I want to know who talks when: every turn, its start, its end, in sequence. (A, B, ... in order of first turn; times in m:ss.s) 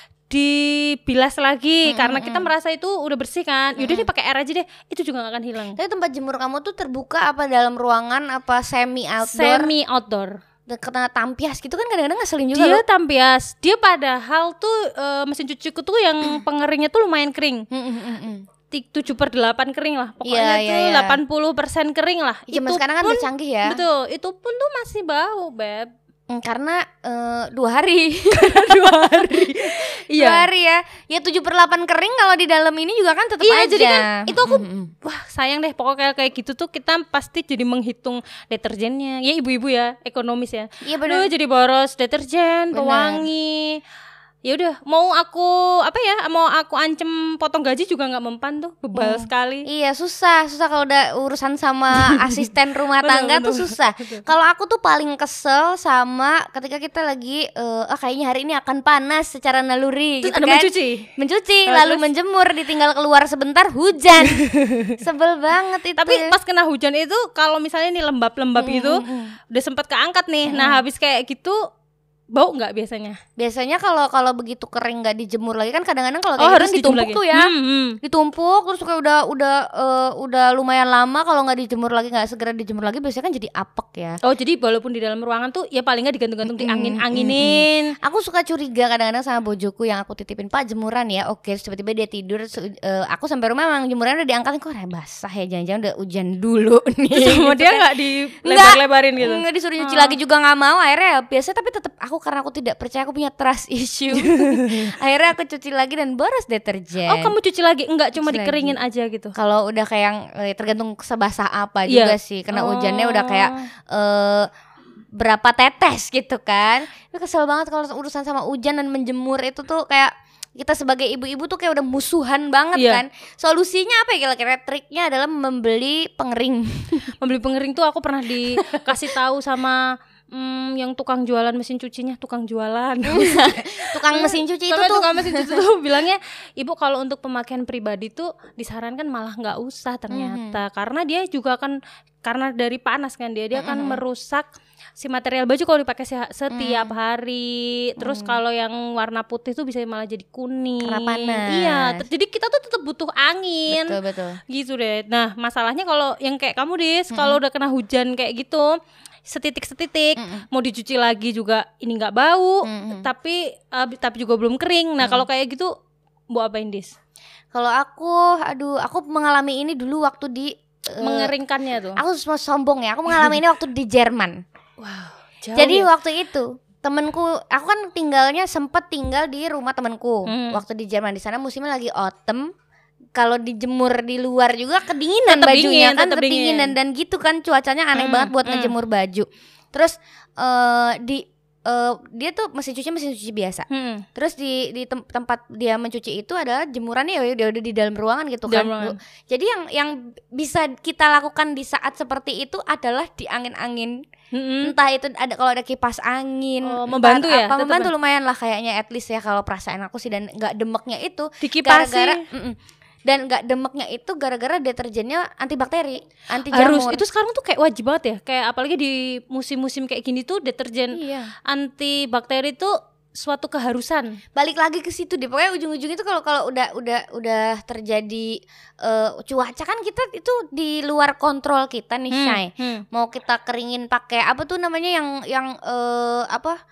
0:00.3-0:05.8 A
0:01.9-0:02.5 B
0:03.8-0:04.1 B
0:05.8-0:09.7 B
0:09.2-0:10.4 A
0:10.7-0:12.8 B
0:12.5-0:17.7 A
0:17.7-0:18.4 B
0:18.7-0:25.9 A
0:20.2-0:21.2 B
0:22.5-0:23.8 B
0:26.3-0:34.9 B
0:28.4-0:30.5 A
0:33.4-0:43.8 A
0:40.8-0:41.3 B
0:42.7-0:43.3 B
0:44.4-0:49.7 A
0:48.9-1:04.4 B
0:52.0-0:52.4 A
0:53.0-0:54.2 A
1:00.2-1:01.1 A
1:01.7-1:02.0 A
1:04.2-1:05.0 A
1:05.0-1:06.4 B
1:06.0-1:11.6 A
1:08.6-1:09.4 B
1:10.5-1:10.8 B
1:12.3-1:13.2 A
1:13.4-1:17.5 B
1:16.4-1:18.0 A
1:18.0-1:24.2 B
1:24.2-1:28.0 A
1:26.5-1:37.8 B
1:37.1-1:40.2 A
1:38.5-1:47.4 B
1:44.1-1:44.9 A
1:47.1-1:49.3 A
1:48.2-1:48.8 B
1:49.4-1:54.5 B
1:51.9-1:53.7 A
1:55.2-2:07.1 B
2:02.8-2:03.0 A
2:07.2-2:24.5 A
2:13.1-2:15.6 B
2:20.1-2:20.6 B
2:23.6-2:24.0 B
2:25.0-2:38.7 A
2:26.5-2:27.0 B
2:28.0-2:28.4 B
2:30.8-2:32.1 B
2:33.7-2:34.4 B
2:37.1-2:37.4 B
2:39.3-2:45.7 A
2:40.2-2:40.5 B
2:42.6-2:43.1 B
2:46.3-2:47.0 A
2:47.5-2:51.3 B
2:51.0-2:52.0 A
2:52.0-2:54.4 B
2:54.8-2:55.9 A
2:55.6-3:02.5 B
3:00.3-3:00.6 A
3:03.2-3:24.0 B
3:05.3-3:06.8 A
3:07.9-3:08.7 A
3:13.7-3:14.0 A
3:18.5-3:19.0 A
3:24.3-3:24.8 A
3:24.6-3:37.0 B
3:26.6-3:27.9 A
3:31.4-3:32.2 A
3:36.4-3:44.2 A
3:40.9-3:41.3 B
3:44.4-3:56.6 B
3:52.1-3:52.8 A